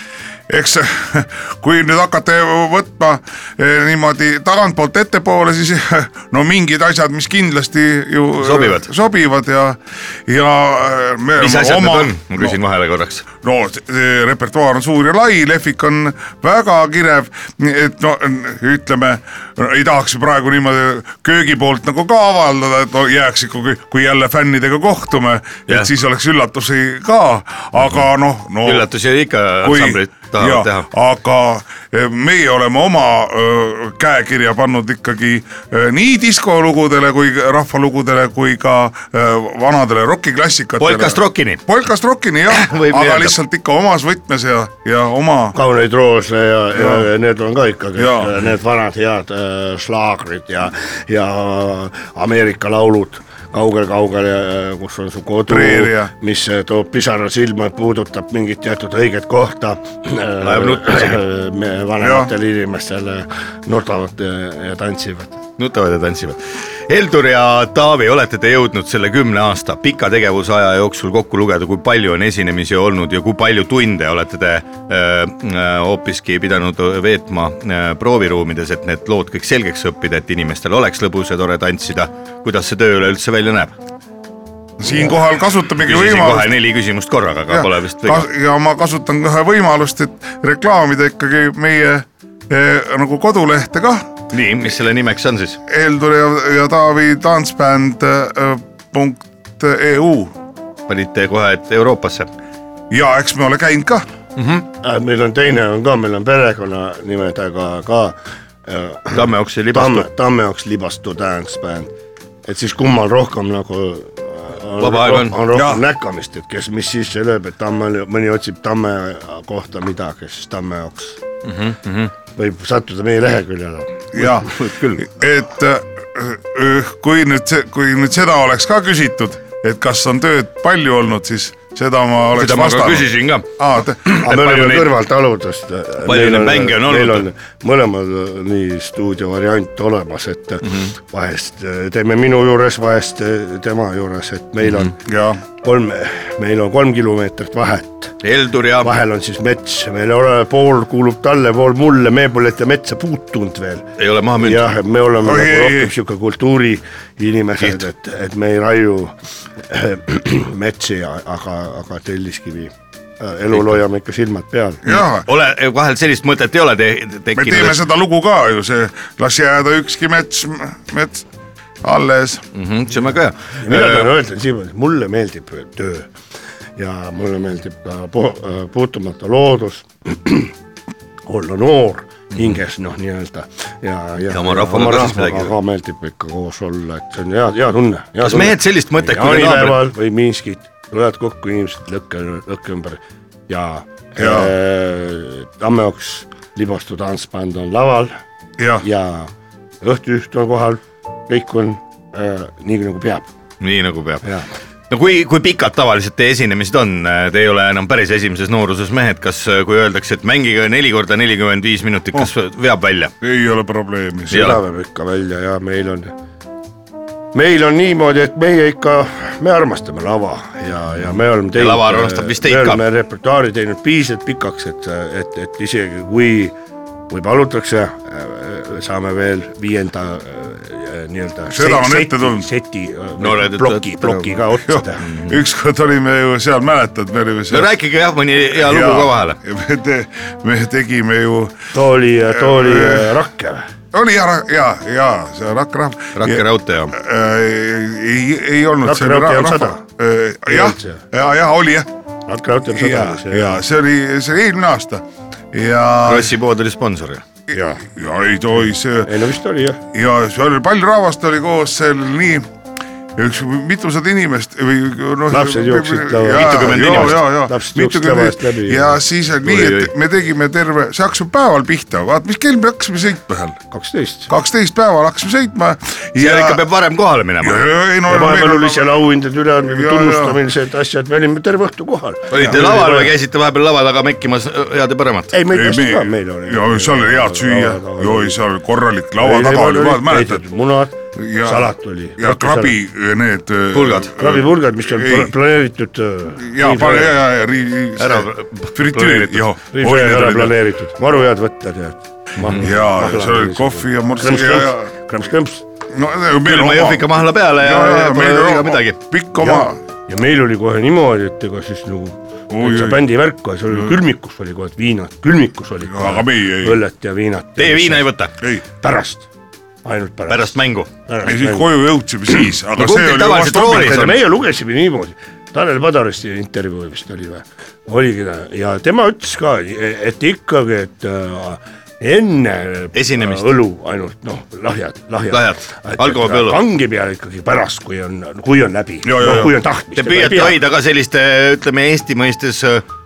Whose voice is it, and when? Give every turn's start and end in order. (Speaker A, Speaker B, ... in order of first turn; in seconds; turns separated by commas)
Speaker A: 0.5-12.6, Speaker B: 8.4-8.9, Speaker B: 11.4-13.3, Speaker A: 13.4-28.9, Speaker B: 28.6-30.9, Speaker A: 29.6-45.5, Speaker B: 40.8-41.6, Speaker B: 42.5-43.4, Speaker C: 45.5-65.4, Speaker A: 46.7-47.1, Speaker A: 48.0-48.3, Speaker A: 55.5-56.1, Speaker B: 60.4-61.2, Speaker A: 62.0-62.3, Speaker B: 65.6-83.7, Speaker A: 84.8-86.5, Speaker B: 85.8-88.3, Speaker A: 87.5-94.1, Speaker B: 94.3-95.6, Speaker A: 95.7-100.3, Speaker B: 100.9-102.3, Speaker A: 102.9-104.0, Speaker B: 104.4-104.6, Speaker C: 104.8-111.9, Speaker B: 109.1-110.1, Speaker C: 112.5-121.2, Speaker B: 114.8-115.4, Speaker A: 115.5-115.8, Speaker B: 121.4-122.1, Speaker C: 122.3-124.3, Speaker A: 124.1-134.2, Speaker B: 124.5-125.0, Speaker B: 132.3-133.5, Speaker B: 134.1-134.9, Speaker C: 134.1-144.9, Speaker B: 136.0-137.2, Speaker A: 145.0-145.4, Speaker C: 145.6-148.1, Speaker B: 148.2-148.9, Speaker C: 148.8-153.9, Speaker B: 154.0-154.7, Speaker C: 154.4-159.1, Speaker A: 155.2-155.9, Speaker C: 159.7-164.8, Speaker A: 164.8-165.3, Speaker B: 164.9-167.8, Speaker A: 167.3-171.2, Speaker A: 171.8-172.4, Speaker B: 172.5-174.1, Speaker C: 173.6-176.1, Speaker C: 176.8-180.5, Speaker C: 181.3-198.2, Speaker B: 184.3-185.5, Speaker B: 188.2-189.9, Speaker A: 194.2-194.5, Speaker A: 198.6-198.8, Speaker C: 198.8-199.3, Speaker C: 199.8-203.3, Speaker B: 203.6-204.2, Speaker B: 204.9-213.1, Speaker A: 213.2-214.5, Speaker C: 214.3-216.1, Speaker B: 214.3-214.6, Speaker C: 217.3-226.5, Speaker B: 221.5-222.8, Speaker C: 227.1-235.1, Speaker A: 231.5-232.5, Speaker B: 233.2-234.4, Speaker A: 234.7-237.7, Speaker B: 235.0-235.3, Speaker B: 237.5-239.4, Speaker A: 238.5-241.6, Speaker C: 241.7-243.7, Speaker A: 242.3-243.2, Speaker A: 243.9-251.9, Speaker B: 246.2-246.9, Speaker C: 248.8-249.8, Speaker C: 250.5-251.0, Speaker C: 252.3-253.6, Speaker A: 252.7-256.3, Speaker B: 256.1-257.2, Speaker A: 257.5-259.1, Speaker C: 257.5-257.8, Speaker C: 259.0-259.8, Speaker A: 259.9-262.5, Speaker A: 263.1-273.6, Speaker C: 265.3-269.0, Speaker B: 266.3-267.2, Speaker B: 269.4-269.9, Speaker C: 273.7-274.3, Speaker A: 274.3-276.6, Speaker B: 276.2-277.6, Speaker A: 277.4-278.9, Speaker C: 278.1-283.1, Speaker A: 279.6-280.4, Speaker B: 282.3-285.3, Speaker A: 282.3-282.6, Speaker C: 285.3-288.4, Speaker A: 285.5-290.4, Speaker C: 289.2-292.7, Speaker A: 291.1-295.3, Speaker B: 293.7-294.1, Speaker C: 294.2-297.1, Speaker A: 296.4-300.6, Speaker B: 298.0-299.4, Speaker C: 299.7-305.6, Speaker A: 302.6-304.9, Speaker A: 305.9-309.8, Speaker B: 306.4-309.0, Speaker C: 309.4-318.0, Speaker A: 312.5-313.0, Speaker A: 313.7-314.0, Speaker A: 315.9-316.8, Speaker B: 317.6-318.3, Speaker C: 318.8-319.2, Speaker C: 319.8-320.5, Speaker B: 320.3-320.9, Speaker C: 321.1-321.7, Speaker A: 321.2-324.1, Speaker B: 322.8-324.2, Speaker C: 323.7-340.6, Speaker B: 332.9-333.5, Speaker B: 335.3-336.6, Speaker A: 339.0-339.5, Speaker B: 339.9-342.8